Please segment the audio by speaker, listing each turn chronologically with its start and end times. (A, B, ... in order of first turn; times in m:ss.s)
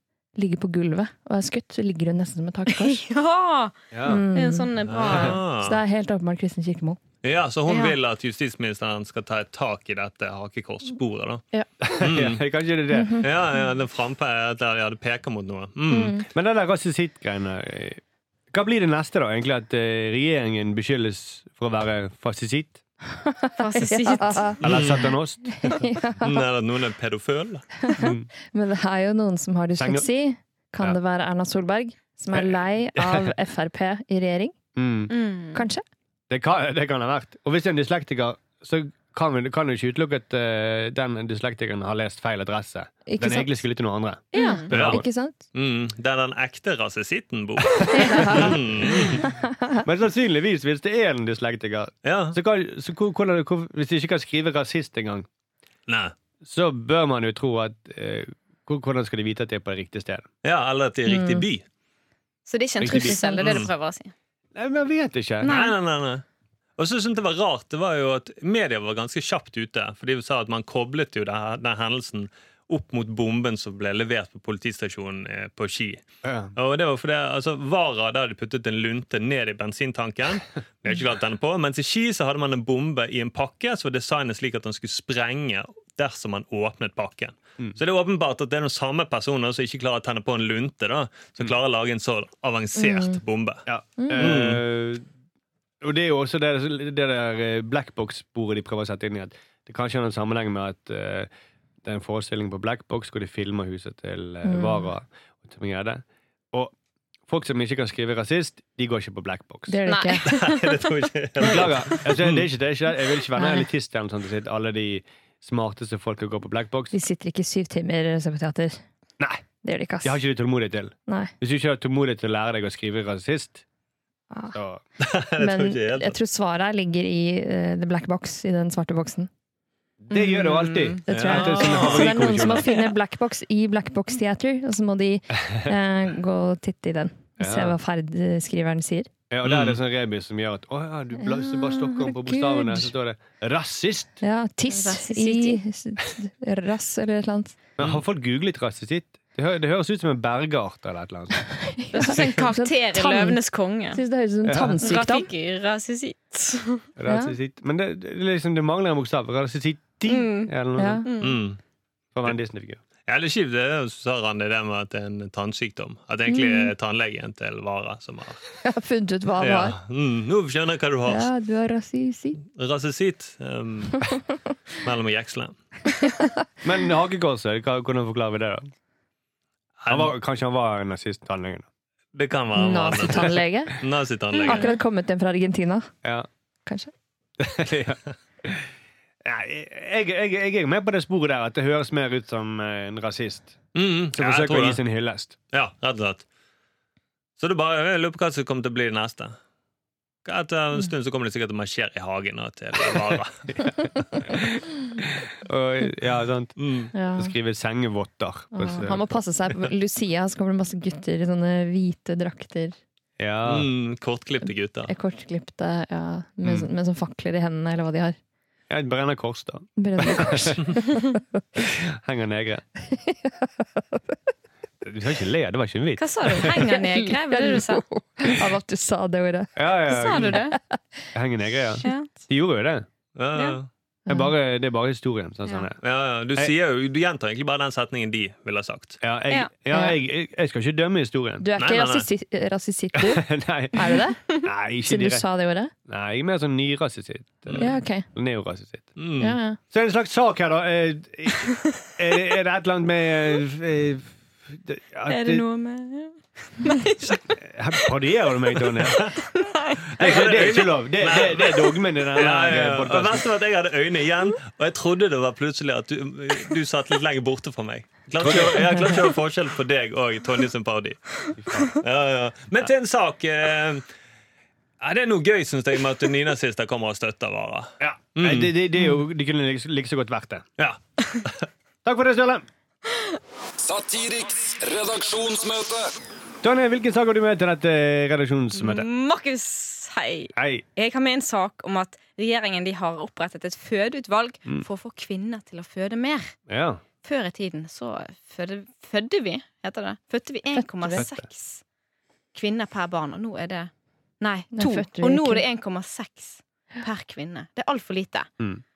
0:00.4-0:03.0 A
0:02.7-0:03.8 B
0:03.9-0:04.2 C
0:04.0-0:04.7 A
0:04.3-0:05.4 B
0:04.9-0:05.8 D
0:05.6-0:07.0 A
0:07.2-0:11.4 D
0:07.7-0:08.0 B
0:11.8-0:13.3 C
0:12.0-0:12.4 D
0:12.9-0:13.3 A
0:13.2-0:16.2 D
0:15.9-0:16.3 A
0:16.3-0:22.8 C
0:23.2-0:24.6 A
0:23.6-0:24.6 B
0:24.6-0:25.1 D
0:24.6-0:25.5 C
0:25.5-0:26.5 A
0:26.2-0:27.7 D
0:27.8-0:34.6 A
0:28.0-0:28.3 C
0:29.8-0:30.1 C
0:32.3-0:33.3 C
0:34.8-0:35.1 C
0:35.1-0:35.6 B
0:35.5-0:35.8 A
0:36.3-0:45.0 C
0:43.1-0:43.6 A
0:44.3-0:45.4 A
0:44.4-0:44.7 B
0:44.7-0:45.0 D
0:45.5-0:49.3 D
0:47.9-0:49.8 A
0:48.2-0:49.2 C
0:49.8-0:55.3 C
0:52.0-0:52.4 D
0:55.9-0:56.2 D
0:56.4-1:00.3 C
1:00.4-1:01.6 D
1:01.1-1:01.5 A
1:02.5-1:04.1 B
1:02.8-1:03.2 C
1:03.4-1:03.7 D
1:04.6-1:05.5 C
1:05.4-1:05.7 B
1:05.4-1:06.2 D
1:06.8-1:16.0 D
1:16.2-1:16.5 C
1:16.6-1:34.6 D
1:32.8-1:33.2 A
1:33.7-1:35.0 C
1:34.0-1:34.2 A
1:35.8-1:41.3 C
1:41.8-1:46.7 C
1:44.4-1:44.9 A
1:47.3-1:49.8 C
1:49.7-1:50.3 A
1:49.9-1:52.1 B
1:50.2-1:52.5 D
1:51.4-1:56.9 C
1:53.4-1:53.7 A
1:56.9-1:58.8 A
1:59.6-2:00.2 A
2:00.0-2:03.6 C
2:01.1-2:01.3 A
2:04.3-2:04.6 A
2:04.5-2:04.8 C
2:05.0-2:06.2 D
2:05.4-2:09.3 A
2:10.0-2:12.7 C
2:10.1-2:11.0 B
2:11.1-2:19.1 A
2:11.1-2:12.4 D
2:17.4-2:17.8 C
2:19.3-2:24.2 C
2:19.4-2:19.8 D
2:21.2-2:22.9 A
2:24.2-2:27.6 A
2:24.7-2:25.6 B
2:27.8-2:31.4 C
2:31.5-2:33.4 A
2:31.9-2:34.0 B
2:33.9-2:35.3 A
2:34.4-2:34.8 C
2:34.8-2:36.9 B
2:37.0-2:41.1 C
2:37.1-2:37.4 A
2:40.1-2:40.5 B
2:40.8-2:41.1 A
2:41.0-2:41.4 B
2:41.2-2:41.6 D
2:42.1-2:42.8 C
2:43.1-2:48.4 D
2:46.3-2:46.7 A
2:48.6-2:49.8 A
2:49.4-2:51.3 D
2:51.1-2:52.4 A
2:52.5-2:54.2 D
2:54.8-2:55.6 D
2:56.6-2:58.7 C
2:59.8-3:00.1 D
2:59.9-3:01.7 C
3:02.1-3:04.7 D
3:02.5-3:03.8 A
3:04.3-3:04.8 B
3:04.5-3:05.9 A
3:06.7-3:06.9 A
3:07.4-3:08.7 C
3:09.2-3:13.6 C
3:13.8-3:14.8 D
3:14.2-3:15.4 C
3:15.5-3:16.2 D
3:17.4-3:19.4 D
3:20.2-3:23.7 D
3:25.0-3:26.6 C
3:26.6-3:26.9 D
3:26.9-3:27.4 A
3:27.2-3:29.1 C
3:28.5-3:32.8 A
3:33.2-3:33.7 C
3:33.4-3:34.9 D
3:34.9-3:38.2 A
3:38.7-3:40.6 C
3:39.8-3:41.4 A
3:41.6-3:42.6 C
3:42.8-3:44.0 A
3:44.8-3:46.6 C
3:46.0-3:47.8 B
3:46.5-3:51.1 A
3:49.6-3:50.4 C
3:49.9-3:50.6 B
3:51.1-3:52.9 C
3:51.8-3:52.1 B
3:53.2-3:53.7 D
3:54.1-3:55.8 C
3:55.8-3:59.0 D
3:59.0-4:01.5 C
3:59.7-4:00.0 A
4:01.4-4:04.2 A
4:01.6-4:02.1 D
4:03.0-4:05.2 C
4:04.8-4:05.7 A
4:05.9-4:09.0 C
4:07.5-4:07.7 D
4:07.6-4:08.1 A
4:09.0-4:09.4 D
4:09.2-4:09.6 A
4:09.7-4:15.4 C
4:15.1-4:17.2 B
4:17.3-4:19.2 C
4:18.8-4:19.2 D
4:19.0-4:20.2 B
4:20.0-4:33.8 D
4:20.0-4:23.3 C
4:28.2-4:28.9 C
4:34.8-4:38.5 D
4:37.8-4:40.4 C
4:40.6-4:41.5 D
4:41.8-4:42.5 C
4:43.6-4:45.9 E
4:46.4-4:48.9 C
4:48.6-4:56.4 B
4:50.4-4:50.6 C
4:56.5-4:56.8 C
4:57.0-5:01.6 B
5:00.5-5:01.0 A
5:01.0-5:01.2 C
5:02.3-5:08.3 B
5:04.5-5:05.4 A